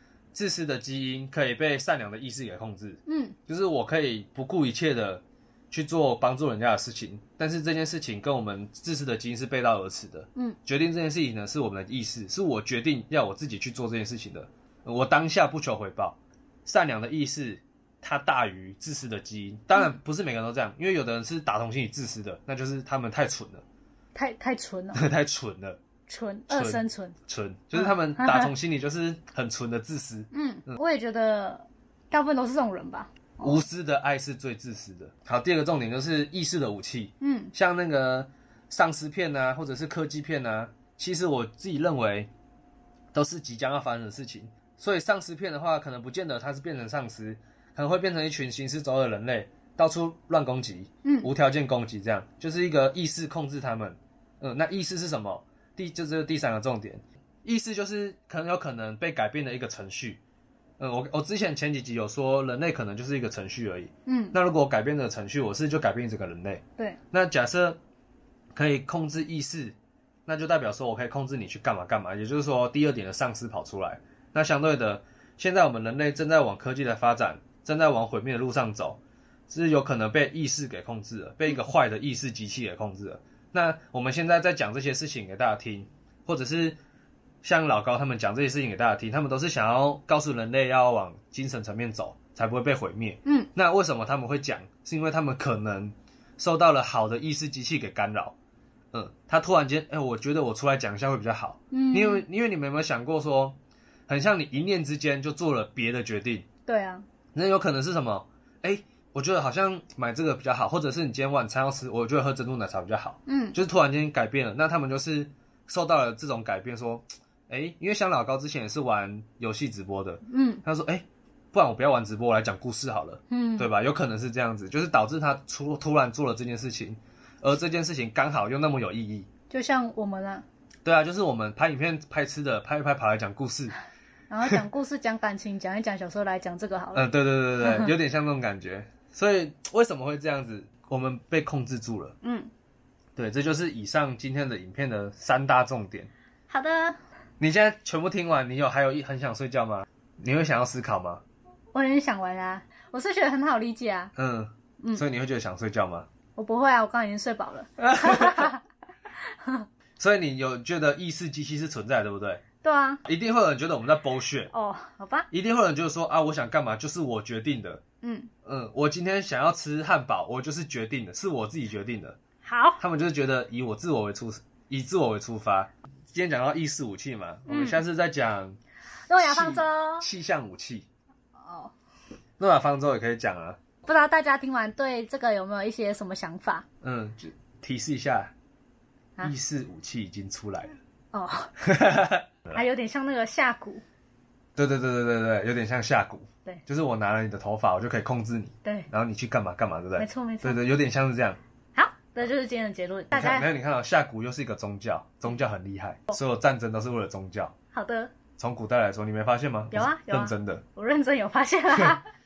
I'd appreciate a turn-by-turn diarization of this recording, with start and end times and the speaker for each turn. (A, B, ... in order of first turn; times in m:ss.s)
0:00.3-0:23.6 A
0:03.0-0:03.4 B
0:24.1-0:25.0 B
0:24.9-0:25.8 A
0:26.1-0:27.2 B
0:26.5-0:30.8 A
0:27.7-0:28.5 B
0:30.3-0:33.6 B
0:33.4-0:42.3 A
0:37.2-0:37.5 B
0:43.1-1:00.2 A
0:51.0-0:51.3 B
1:00.8-1:07.8 A
1:04.1-1:04.4 B
1:08.5-1:26.8 A
1:27.4-1:38.3 A
1:38.9-1:43.6 A
1:41.7-1:42.2 B
1:44.1-1:46.5 A
1:46.6-1:47.0 B
1:47.3-2:09.3 A
1:53.3-1:53.6 B
2:00.3-2:00.6 B
2:03.3-2:03.7 B
2:09.5-2:10.4 B
2:10.8-2:13.8 A
2:14.3-2:17.9 B
2:16.9-2:22.1 A
2:22.2-2:22.5 B
2:23.2-2:26.1 A
2:26.5-2:27.0 B
2:27.4-2:31.2 A
2:31.7-2:34.1 B
2:34.2-2:36.1 A
2:36.4-2:38.6 B
2:37.8-2:38.5 A
2:39.3-2:39.7 B
2:40.0-2:42.4 A
2:42.6-2:43.0 B
2:43.0-2:44.5 A
2:44.5-2:45.3 B
2:45.3-2:47.8 A
2:48.0-2:48.3 B
2:48.4-2:52.2 A
2:52.4-2:52.8 B
2:52.8-2:58.6 A
2:57.5-2:57.8 B
2:59.1-3:00.0 B
2:59.2-3:00.9 A
3:01.4-3:01.7 B
3:02.4-3:03.6 A
3:03.8-3:06.6 B
3:06.8-3:08.3 A
3:09.2-3:10.8 A
3:11.1-3:11.5 B
3:11.6-3:12.6 A
3:12.5-3:13.8 B
3:14.6-3:21.4 A
3:18.6-3:18.9 B
3:20.0-3:20.6 B
3:21.7-3:23.5 B
3:23.1-3:27.5 A
3:27.7-3:28.1 B
3:28.4-3:30.6 A
3:29.7-3:32.0 B